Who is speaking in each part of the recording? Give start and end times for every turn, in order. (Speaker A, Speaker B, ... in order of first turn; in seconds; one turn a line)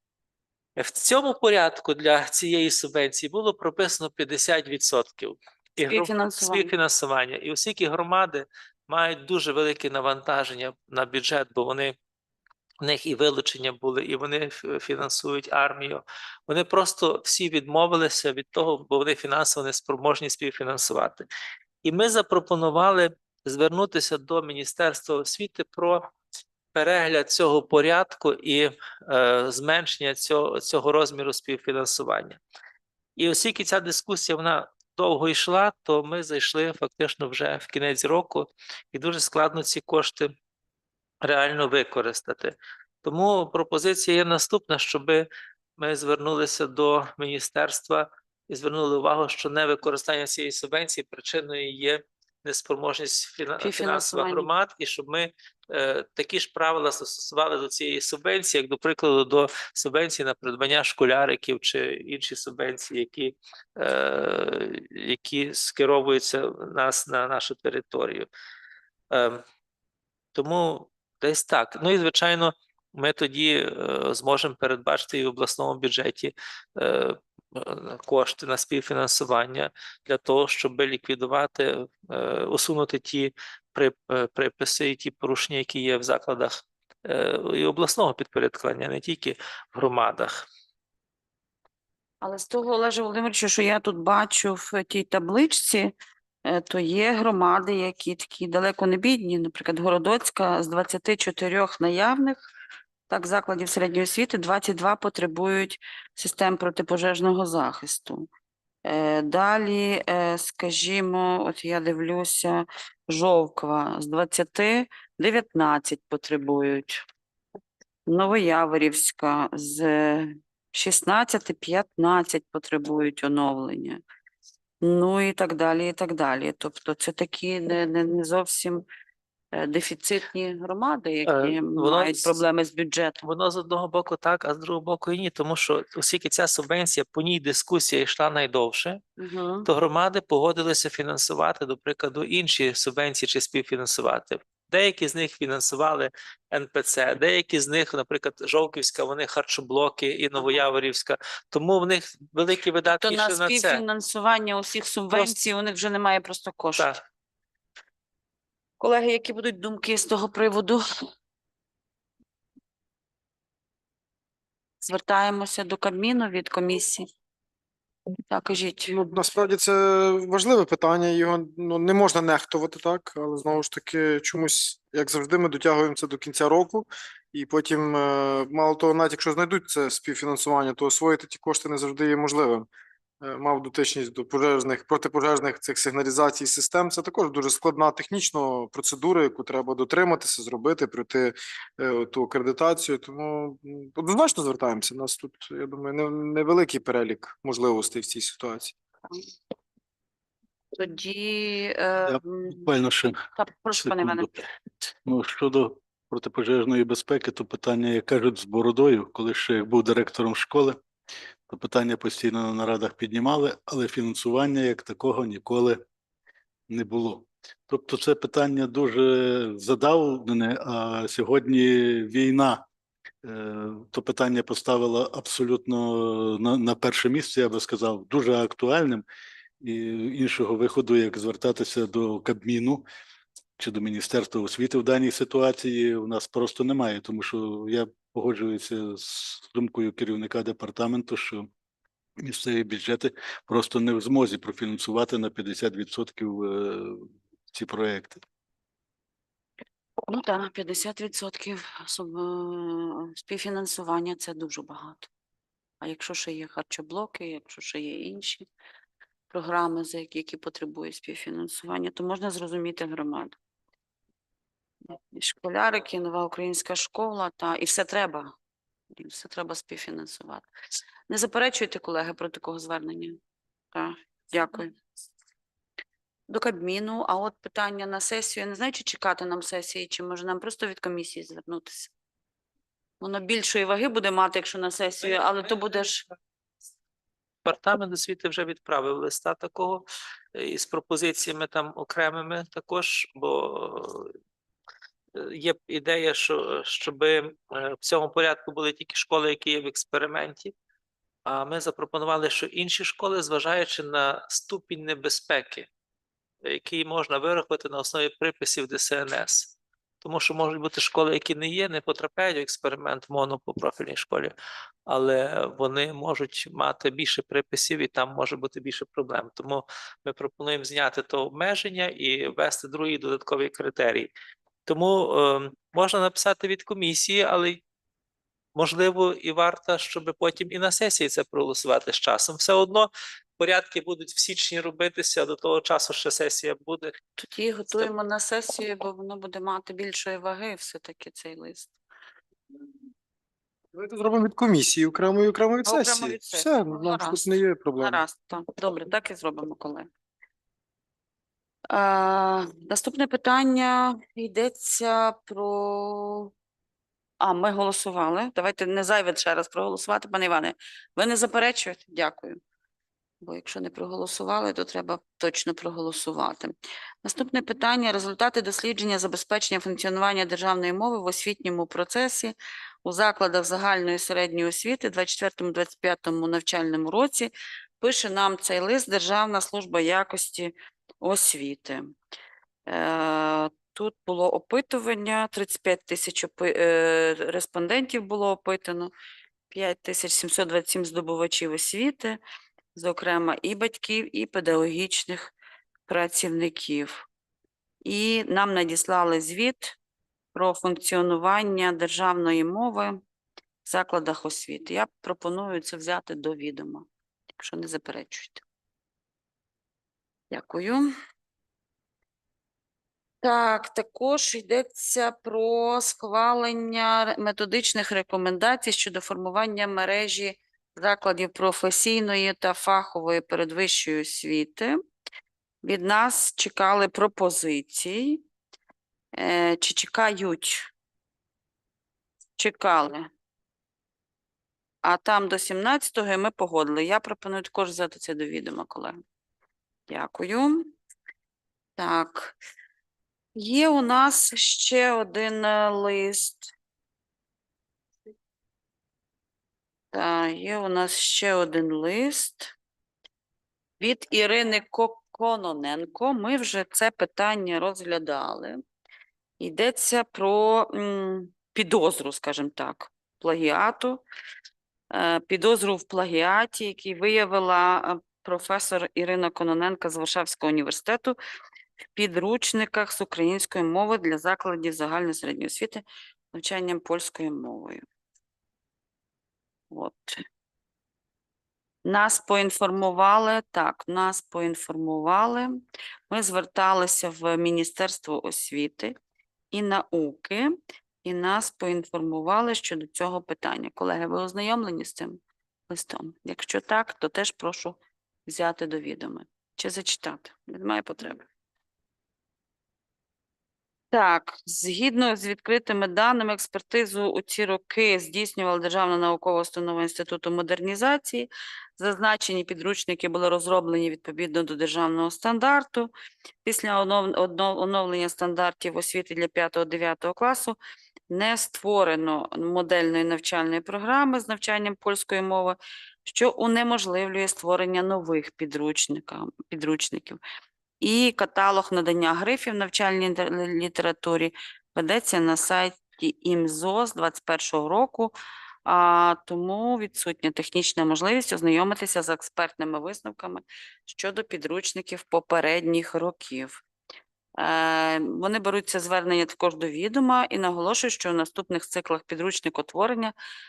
Speaker A: 0.8-11.9
Speaker B: 5.9-6.7
Speaker A: 12.8-21.2
Speaker A: 21.8-26.1
Speaker A: 26.8-32.4
Speaker A: 33.2-40.3
Speaker A: 41.2-45.3
Speaker A: 45.8-68.3
Speaker B: 53.6-54.5
Speaker A: 69.1-69.4
Speaker A: 70.3-90.5
Speaker B: 92.2-95.9
Speaker B: 96.5-102.5
Speaker B: 103.1-108.3
Speaker B: 108.8-117.0
Speaker B: 118.1-124.0
Speaker B: 124.8-128.8
Speaker B: 129.5-133.2
Speaker A: 131.3-132.4
Speaker A: 133.2-139.0
Speaker B: 139.2-139.7
Speaker A: 139.7-153.8
Speaker B: 153.0-156.9
Speaker B: 158.8-160.8
Speaker B: 164.8-167.1
Speaker B: 168.3-168.9
Speaker C: 168.9-182.7
Speaker C: 183.2-198.8
Speaker B: 200.8-202.7
Speaker D: 202.1-203.3
Speaker B: 203.4-204.4
Speaker D: 203.8-204.3
Speaker D: 205.1-210.8
Speaker D: 211.5-215.8
Speaker D: 216.7-222.6
Speaker D: 223.2-229.0
Speaker D: 229.6-232.9
Speaker D: 233.6-241.5
Speaker D: 242.2-248.2
Speaker B: 250.1-255.1
Speaker B: 255.8-258.5
Speaker B: 259.3-263.4
Speaker B: 264.9-268.3
Speaker B: 269.0-270.5
Speaker B: 271.1-273.2
Speaker B: 273.7-274.7
Speaker B: 276.3-281.9
Speaker B: 283.0-286.1
Speaker A: 287.4-294.1
Speaker A: 295.1-300.5
Speaker A: 301.3-305.7
Speaker A: 306.4-314.3
Speaker A: 314.9-324.1
Speaker A: 324.7-327.6
Speaker A: 328.6-336.9
Speaker B: 337.2-341.7
Speaker C: 343.7-348.0
Speaker B: 345.6-349.9
Speaker B: 351.7-356.3
Speaker B: 357.2-362.4
Speaker B: 363.2-381.8
Speaker B: 382.7-388.9
Speaker B: 389.5-392.2
Speaker B: 392.8-395.3
Speaker B: 395.9-397.1
Speaker B: 397.8-399.8
Speaker B: 400.4-403.0
Speaker B: 403.6-406.9
Speaker B: 407.4-408.4
Speaker B: 410.3-410.9
Speaker B: 413.2-424.8
Speaker B: 425.6-428.2
Speaker B: 429.2-430.7
Speaker B: 432.4-433.1
Speaker B: 434.8-438.9
Speaker B: 439.9-440.7
Speaker B: 441.8-442.4
Speaker B: 443.4-446.5
Speaker B: 449.9-452.5
Speaker B: 453.8-458.6
Speaker B: 459.4-464.0
Speaker B: 464.9-471.2
Speaker B: 471.9-477.8
Speaker B: 479.7-480.2
Speaker B: 481.9-485.5
Speaker B: 486.1-488.9
Speaker B: 489.5-490.5
Speaker B: 491.0-501.2
Speaker B: 503.9-515.9
Speaker B: 516.5-520.6
Speaker B: 521.1-530.2
Speaker B: 530.8-538.1
Speaker B: 538.7-546.6
Speaker B: 547.4-553.1